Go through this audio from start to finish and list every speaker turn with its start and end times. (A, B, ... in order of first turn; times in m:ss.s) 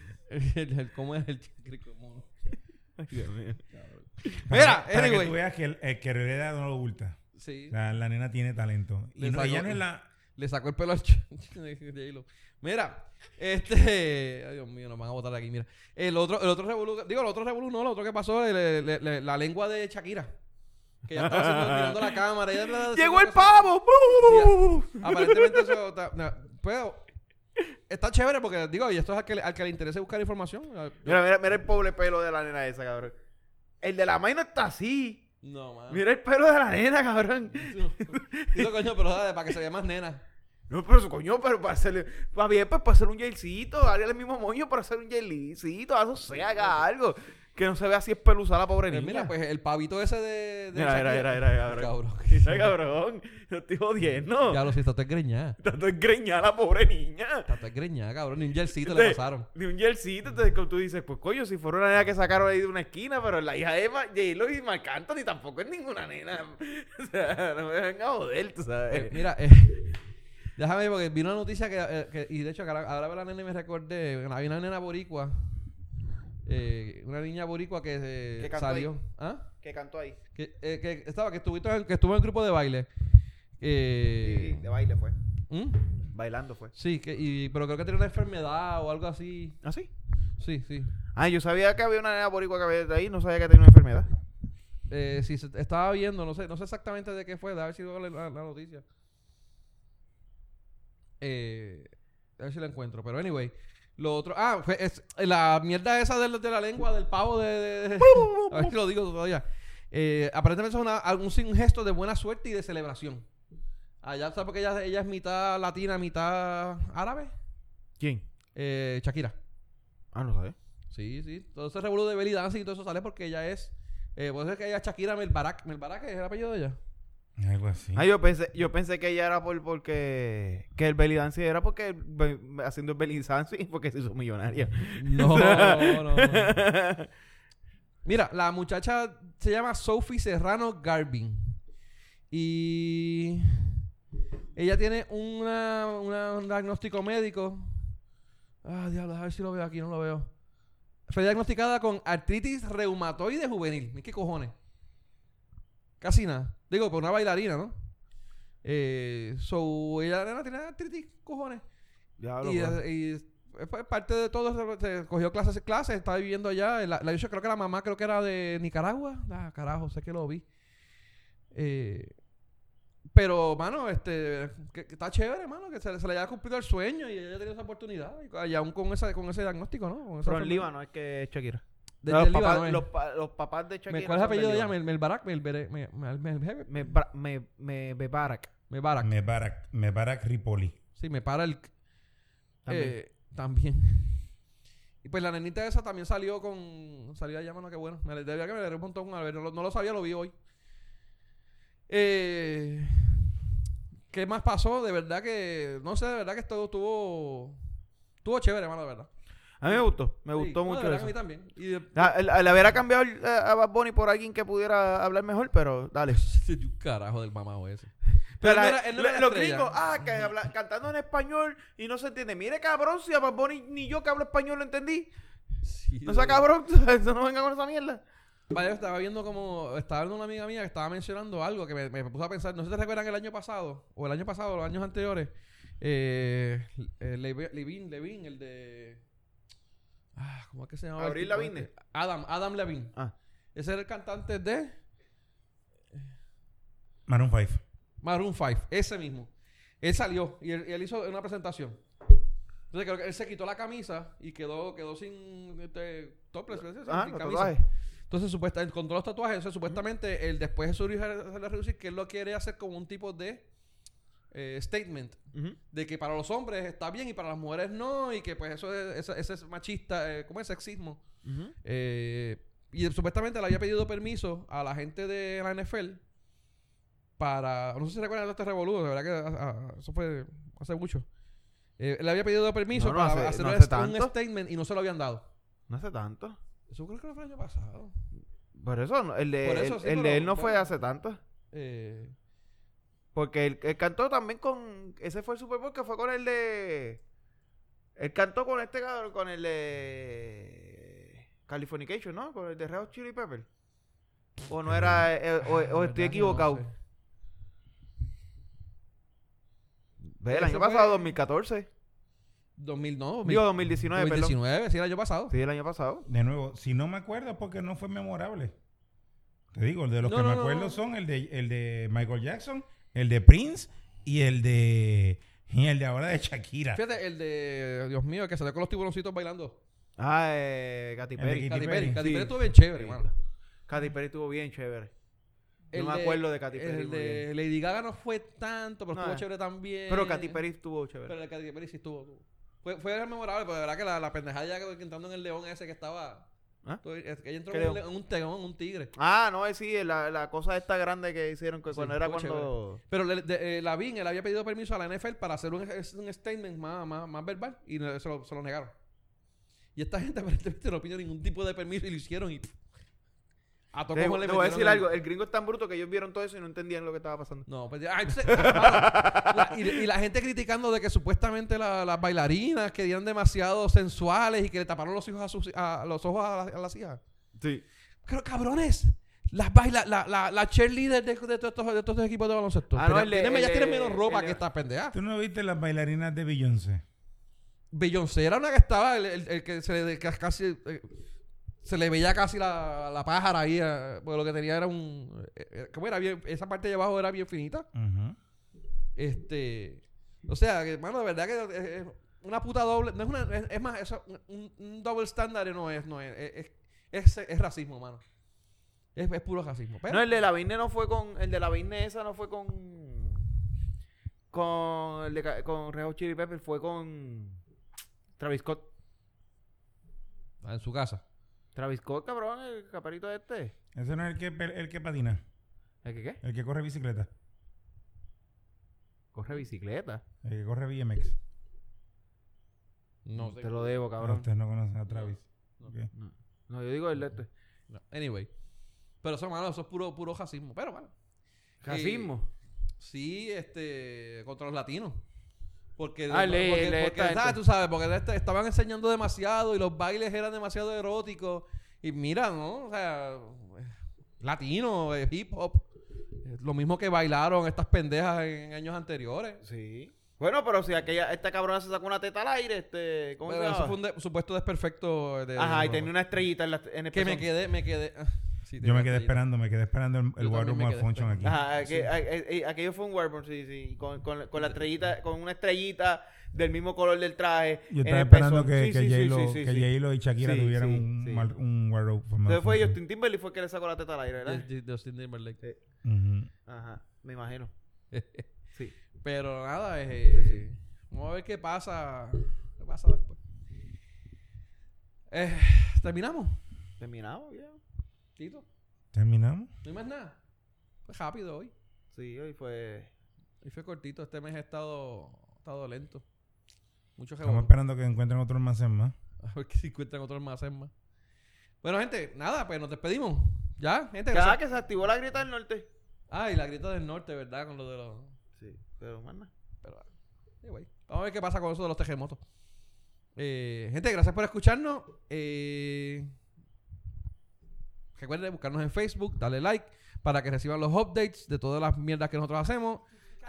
0:00.3-0:02.3 A
0:03.0-0:03.6 B
0:03.8-0:05.4 A
0:04.5-0:10.1 C
0:07.3-0:07.8 A
0:09.2-0:09.8 A
0:10.4-0:20.3 A
0:21.1-0:23.7 A
0:21.2-0:22.2 B
0:22.9-0:25.7 B
0:24.2-0:27.0 A
0:27.9-0:31.2 A
0:31.0-0:33.2 B
0:33.8-0:35.2 B
0:35.4-0:36.0 A
0:35.9-0:38.8 B
0:37.5-0:40.2 A
0:40.7-0:49.3 B
0:48.9-0:52.7 A
0:50.7-0:54.6 B
0:54.5-0:55.6 A
0:55.6-0:57.5 B
0:57.4-0:59.5 A
0:58.8-1:09.2 B
1:08.9-1:10.0 A
1:10.6-1:15.6 A
1:16.4-1:19.5 A
1:18.4-1:18.9 B
1:19.6-1:20.2 B
1:20.3-1:22.9 A
1:23.6-1:24.6 A
1:24.2-1:25.2 B
1:25.5-1:26.0 A
1:26.1-1:26.7 B
1:26.7-1:29.6 A
1:29.6-1:29.9 B
1:30.4-1:30.9 A
1:31.1-1:34.1 B
1:34.9-1:38.8 A
1:41.2-1:53.2 A
1:48.0-1:48.7 B
1:54.0-1:57.3 A
1:58.0-1:58.2 B
1:58.5-1:59.4 A
2:00.1-2:00.6 B
2:00.9-2:06.8 A
2:07.4-2:08.1 C
2:07.9-2:17.1 B
2:15.0-2:16.5 A
2:18.0-2:21.6 A
2:22.3-2:23.7 A
2:24.5-2:27.9 A
2:28.6-2:30.3 A
2:31.1-2:34.5 A
2:36.0-2:37.7 A
2:38.6-2:41.6 A
2:42.2-2:42.8 B
2:42.4-2:50.4 A
2:51.5-2:52.1 A
2:53.1-3:00.7 A
3:00.2-3:04.7 B
3:02.0-3:02.9 A
3:03.9-3:06.9 A
3:06.7-3:08.5 B
3:08.7-3:09.1 A
3:09.0-3:10.8 C
3:11.0-3:11.7 A
3:12.6-3:12.9 B
3:12.7-3:14.2 A
3:15.0-3:20.3 A
3:21.9-3:23.2 A
3:24.1-3:27.6 A
3:28.2-3:29.1 A
3:29.6-3:31.1 B
3:29.6-3:32.1 A
3:31.9-3:36.2 B
3:36.1-3:40.3 A
3:38.4-3:45.1 B
3:45.6-3:46.4 A
3:46.0-3:48.0 B
3:48.5-3:59.0 A
4:00.2-4:02.9 A
4:01.0-4:01.7 B
4:03.5-4:04.8 A
4:07.1-4:07.6 C
4:08.0-4:09.3 A
4:09.8-4:11.8 A
4:12.7-4:17.6 A
4:16.8-4:17.6 B
4:18.1-4:23.5 A
4:24.3-4:31.0 A
4:25.3-4:25.6 B
4:31.2-4:31.5 B
4:31.6-4:36.0 A
4:37.2-4:41.0 A
4:41.8-4:45.3 A
4:42.7-4:44.1 B
4:45.7-4:46.4 B
4:46.7-4:47.9 A
4:48.5-4:51.2 B
4:49.4-4:50.7 A
4:51.5-4:52.1 A
4:53.1-4:57.0 B
4:58.0-5:03.5 B
5:04.5-5:06.6 B
5:04.6-5:05.1 C
5:05.4-5:06.7 A
5:10.2-5:11.7 B
5:10.3-5:11.1 A
5:12.6-5:15.3 A
5:13.2-5:14.4 B
5:15.3-5:16.0 B
5:16.1-5:18.5 C
5:19.5-5:26.8 C
5:20.0-5:20.8 A
5:26.7-5:29.6 A
5:30.0-5:33.1 B
5:31.2-5:32.0 C
5:31.4-5:33.1 A
5:33.7-5:34.9 B
5:35.7-5:40.4 A
5:35.7-5:37.2 B
5:38.9-5:39.2 B
5:39.9-5:41.1 B
5:41.0-5:46.3 A
5:46.8-5:48.9 A
5:47.5-5:47.8 B
5:49.0-5:52.8 B
5:51.7-5:58.7 A
5:59.8-6:02.5 A
6:03.7-6:04.9 A
6:03.9-6:07.5 B
6:07.5-6:17.0 A
6:08.3-6:09.7 B
6:17.4-6:17.6 B
6:18.0-6:25.0 A
6:22.7-6:24.4 B
6:24.9-6:26.8 C
6:27.7-6:30.9 A
6:31.6-6:37.7 A
6:37.7-6:38.2 C
6:39.0-6:48.0 A
6:48.9-6:50.0 A
6:49.9-6:53.2 B
6:54.3-6:57.4 B
6:58.2-6:58.7 B
7:00.4-7:01.0 A
7:01.5-7:03.5 B
7:03.7-7:05.2 C
7:05.8-7:06.2 B
7:06.2-7:07.1 C
7:09.1-7:10.0 B
7:10.2-7:11.2 C
7:13.0-7:13.8 A
7:13.2-7:14.3 B
7:14.0-7:15.9 C
7:14.9-7:15.7 A
7:15.9-7:17.3 B
7:17.7-7:18.3 A
7:19.0-7:20.9 A
7:21.6-7:22.3 B
7:21.6-7:22.1 A
7:22.8-7:25.0 A
7:25.8-7:35.7 A
7:26.1-7:27.4 B
7:36.2-7:39.4 A
7:39.4-7:43.8 B
7:43.2-7:45.9 A
7:45.4-7:47.3 B
7:46.9-7:49.2 A
7:48.6-7:51.4 C
7:50.2-7:51.9 A
7:51.2-8:01.3 B
7:57.7-8:02.8 C
8:02.2-8:04.4 B
8:04.2-8:05.4 A
8:05.8-8:06.3 C
8:06.5-8:07.5 B
8:07.9-8:08.2 A
8:09.0-8:13.2 A
8:10.1-8:10.5 B
8:15.1-8:16.4 A
8:16.8-8:17.6 B
8:18.2-8:18.4 A
8:18.9-8:19.5 C
8:19.6-8:20.2 A
8:20.8-8:21.5 A
8:21.9-8:22.9 B
8:23.4-8:26.0 A
8:27.0-8:27.5 A
8:27.2-8:28.9 C
8:29.2-8:30.7 A
8:31.6-8:34.4 A
8:34.1-8:35.7 B
8:36.1-8:38.1 A
8:38.4-8:39.3 B
8:40.4-8:42.2 A
8:43.2-8:46.1 A
8:48.0-8:52.8 A